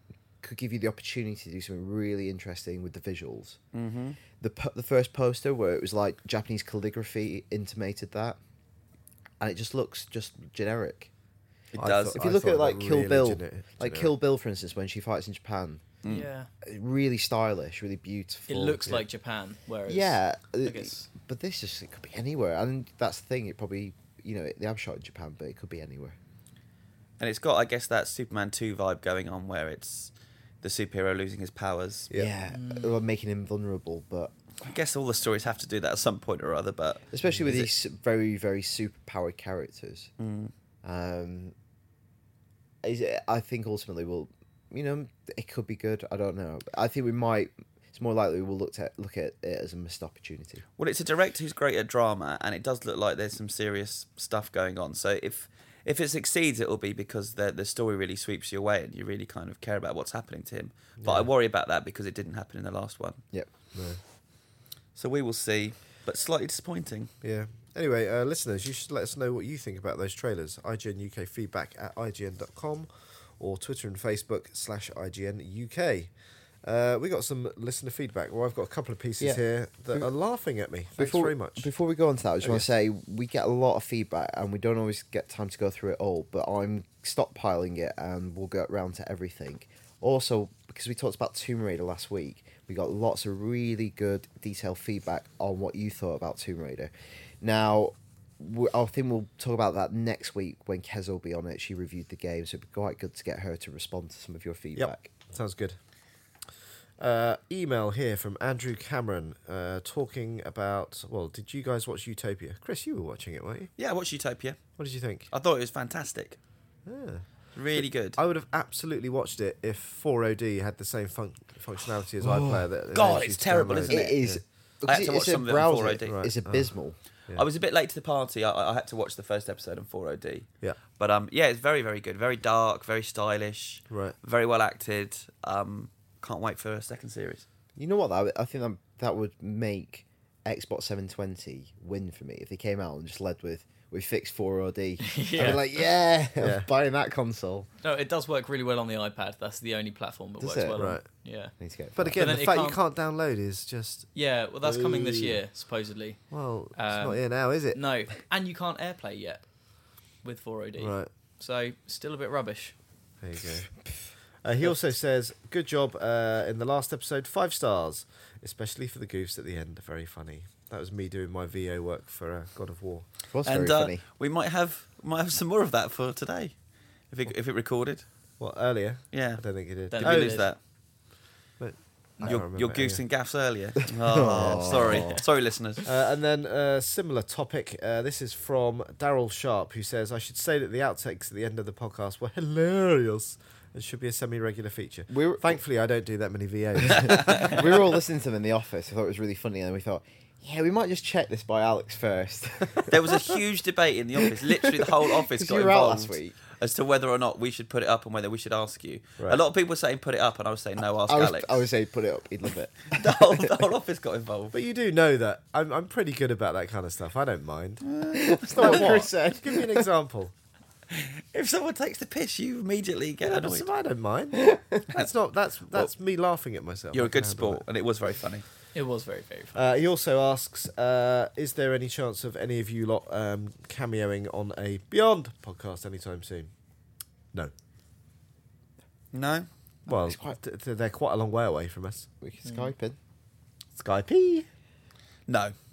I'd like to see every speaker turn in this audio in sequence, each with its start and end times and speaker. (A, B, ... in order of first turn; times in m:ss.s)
0:00.4-0:03.6 A
0:03.7-0:04.2 B
0:04.4-0:08.4 A
0:09.4-0:11.1 A
0:11.7-0:12.2 B
0:11.8-0:14.1 C
0:12.1-0:15.8 A
0:16.0-0:16.3 B
0:16.0-0:16.5 D
0:16.6-0:19.0 A
0:18.5-0:21.1 D
0:19.9-0:26.2 A
0:27.2-0:32.1 B
0:32.1-0:34.3 A
0:32.5-0:33.0 D
0:34.6-0:37.7 B
0:37.1-0:40.1 A
0:40.2-0:40.5 B
0:40.8-0:41.5 A
0:42.8-0:50.6 A
0:50.8-1:03.2 B
1:01.0-1:01.3 C
1:03.7-1:04.0 C
1:05.0-1:07.1 B
1:07.2-1:16.1 C
1:16.6-1:21.7 C
1:19.2-1:20.1 A
1:21.0-1:45.1 A
1:44.8-1:45.8 C
1:47.0-1:53.7 C
1:53.8-1:54.7 B
1:54.8-1:55.3 C
1:55.3-1:56.4 B
1:56.8-2:04.4 C
1:57.5-1:58.2 B
2:02.2-2:02.6 A
2:02.9-2:04.2 B
2:03.8-2:07.0 A
2:04.8-2:06.2 B
2:06.1-2:06.7 C
2:07.3-2:17.4 B
2:13.9-2:14.2 C
2:17.8-2:27.7 A
2:25.0-2:25.7 D
2:26.4-2:26.7 C
2:27.8-2:31.5 D
2:30.4-2:30.9 A
2:30.8-2:31.1 C
2:31.6-2:32.2 A
2:32.0-2:35.4 C
2:32.1-2:32.8 D
2:34.1-2:39.4 D
2:36.3-2:37.8 C
2:40.2-2:42.7 D
2:40.8-2:41.1 C
2:43.2-2:43.8 C
2:44.4-2:53.1 C
2:53.3-2:54.0 A
2:53.4-2:56.6 B
2:57.1-2:58.0 B
2:58.4-3:00.4 C
2:59.1-3:00.6 B
2:59.9-3:00.5 D
3:01.6-3:03.0 C
3:02.2-3:05.8 B
3:04.1-3:05.2 A
3:04.2-3:05.0 C
3:05.8-3:17.9 C
3:15.1-3:15.6 A
3:16.9-3:23.1 A
3:22.9-3:31.6 B
3:24.4-3:26.4 A
3:31.1-3:33.6 A
3:32.9-3:34.6 B
3:34.5-3:37.9 C
3:37.8-3:38.9 B
3:38.1-3:39.9 A
3:38.4-3:40.3 C
3:40.9-3:43.7 B
3:43.2-3:47.6 C
3:44.3-3:44.8 A
3:46.9-3:48.4 B
3:48.7-3:49.6 D
3:49.5-3:56.5 C
3:59.1-3:59.5 B
3:59.9-4:00.4 A
3:59.9-4:02.1 C
4:02.2-4:03.0 A
4:02.4-4:02.7 D
4:03.7-4:04.5 C
4:05.3-4:05.5 B